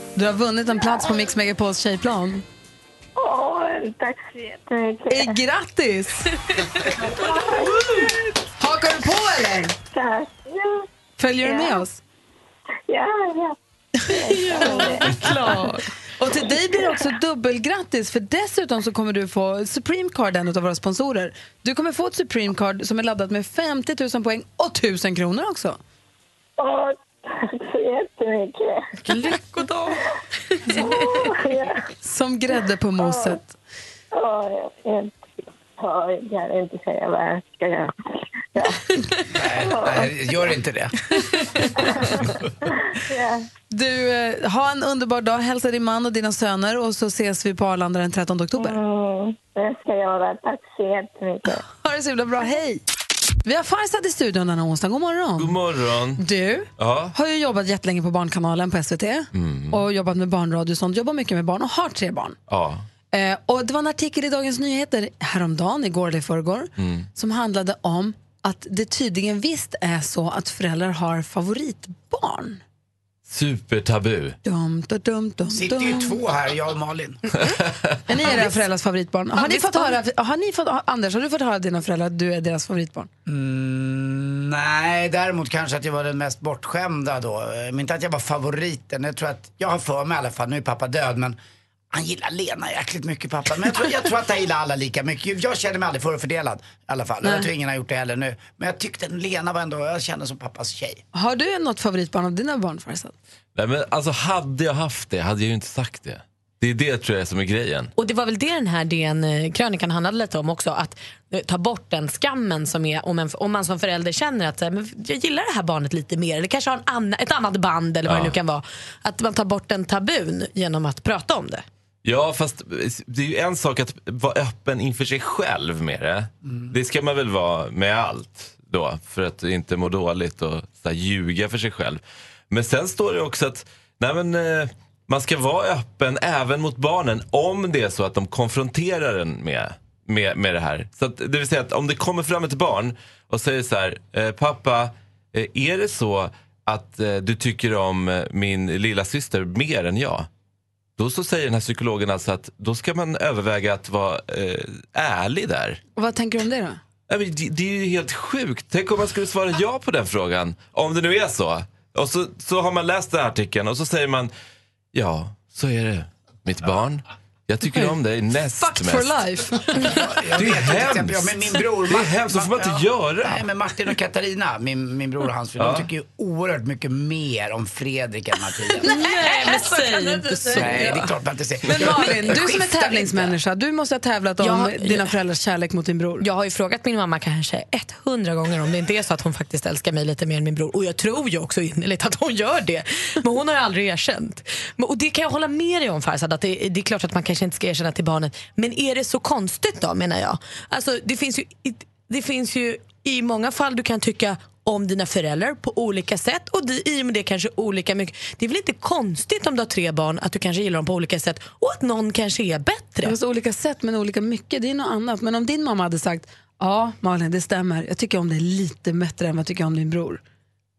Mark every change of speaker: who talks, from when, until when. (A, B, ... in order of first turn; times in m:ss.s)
0:00.1-0:02.4 A
0:03.2-0:05.3 B
0:05.1-0:06.3 A
0:07.2-0:07.8 B
0:08.6-0:09.7 A
0:09.9-0:10.8 B
0:11.2-0:12.0 A
0:11.4-0:11.8 B
0:12.9-0:13.6 B
0:14.1-0:15.2 B
0:14.3-0:15.7 C
0:14.6-0:25.8 A
0:26.6-0:27.0 B
0:27.6-0:28.8 B
0:29.0-0:30.0 C
0:30.8-0:31.8 B
0:32.0-0:33.5 A
0:33.0-0:33.4 B
0:34.1-0:35.1 B
0:35.8-0:37.9 B
0:39.3-0:40.9 D
0:39.6-0:40.1 B
0:43.1-0:43.4 B
0:43.7-0:48.8 A
0:48.6-0:51.6 B
0:51.6-0:52.8 A
0:53.4-0:55.6 A
0:55.4-0:56.2 E
0:56.2-1:02.4 A
0:56.8-0:57.1 E
0:59.3-0:59.8 E
1:02.5-1:02.8 E
1:03.1-1:12.6 A
1:06.8-1:07.0 E
1:13.3-1:14.4 E
1:14.4-1:16.2 A
1:15.5-1:17.2 D
1:17.4-1:18.0 E
1:18.1-1:23.1 A
1:18.3-1:18.5 C
1:19.4-1:19.9 C
1:23.2-1:31.4 D
1:31.9-1:41.0 D
1:37.2-1:37.5 A
1:41.1-1:43.1 A
1:43.5-1:47.9 E
1:48.0-2:01.6 C
1:58.0-1:58.4 E
2:02.0-2:30.3 E
2:31.0-2:35.8 E
2:36.0-2:36.8 A
2:37.1-2:44.3 E
2:44.9-2:49.3 E
2:48.6-2:50.0 A
2:49.8-2:58.9 D
2:50.3-2:53.5 E
2:55.6-2:55.9 E
2:58.8-3:01.1 C
2:58.8-3:00.9 A
3:00.5-3:02.6 D
3:01.7-3:06.2 A
3:01.8-3:02.4 C
3:04.4-3:05.1 C
3:06.2-3:33.2 C
3:33.0-3:40.2 A